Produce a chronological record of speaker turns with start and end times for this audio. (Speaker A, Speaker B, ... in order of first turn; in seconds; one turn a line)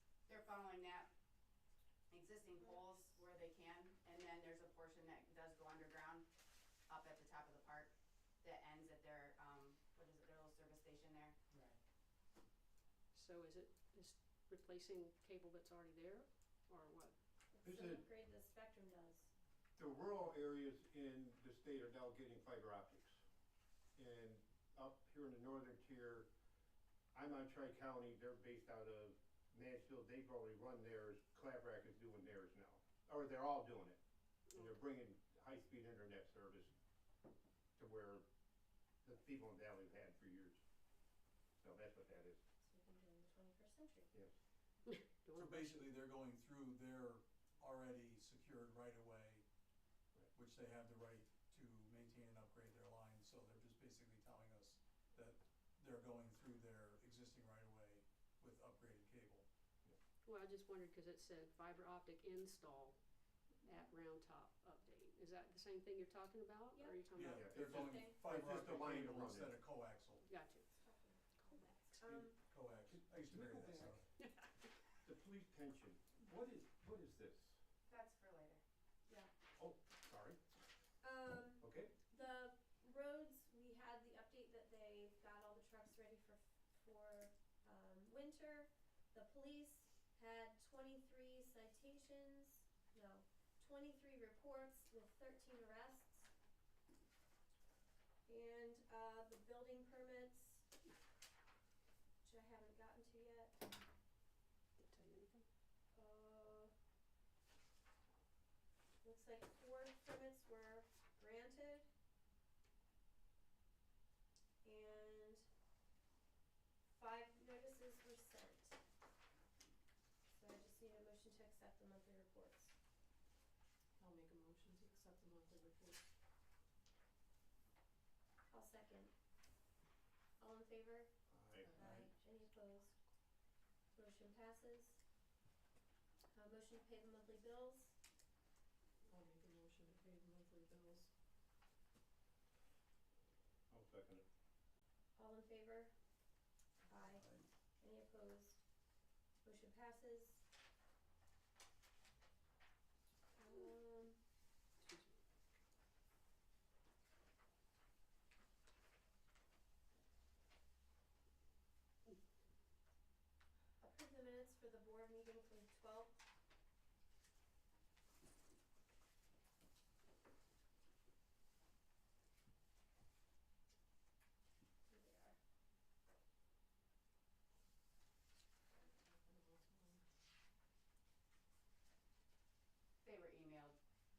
Speaker A: 0.3-1.1
Speaker A: 2.1-6.2
Speaker A: 6.8-11.3
Speaker B: 13.1-17.2
Speaker C: 17.5-19.3
Speaker D: 17.6-18.1
Speaker D: 19.8-23.2
Speaker D: 23.9-26.3
Speaker D: 27.1-34.0
Speaker D: 34.5-36.7
Speaker D: 37.8-38.2
Speaker D: 39.0-40.6
Speaker D: 41.6-42.4
Speaker C: 42.6-44.1
Speaker B: 44.9-46.0
Speaker E: 45.3-49.4
Speaker E: 50.3-59.5
Speaker B: 60.2-67.5
Speaker C: 66.7-68.2
Speaker E: 67.1-70.3
Speaker D: 67.3-69.6
Speaker B: 70.2-70.7
Speaker C: 70.7-72.4
Speaker B: 71.3-72.0
Speaker E: 72.1-74.0
Speaker D: 72.9-74.0
Speaker B: 74.2-74.6
Speaker D: 75.0-77.6
Speaker A: 77.9-78.6
Speaker D: 79.5-80.4
Speaker C: 81.0-96.3
Speaker D: 81.6-81.9
Speaker C: 98.2-100.7
Speaker C: 102.2-103.6
Speaker B: 104.8-105.5
Speaker C: 105.9-106.7
Speaker C: 109.0-111.9
Speaker C: 114.6-115.5
Speaker C: 117.0-118.8
Speaker C: 120.3-122.7
Speaker F: 124.0-126.0
Speaker C: 128.5-129.1
Speaker C: 130.4-131.1
Speaker D: 131.3-131.7
Speaker F: 131.6-131.9
Speaker C: 131.7-133.0
Speaker E: 131.8-132.1
Speaker C: 133.9-135.0
Speaker C: 136.3-137.9
Speaker F: 139.1-141.1
Speaker D: 143.7-144.2
Speaker C: 145.2-145.9
Speaker C: 146.9-147.2
Speaker E: 147.1-147.4
Speaker C: 147.8-148.6
Speaker C: 149.4-150.4
Speaker C: 153.3-154.2
Speaker B: 154.8-155.1
Speaker C: 163.8-166.2
Speaker C: 174.9-175.3
Speaker F: 178.7-180.1
Speaker A: 183.0-183.8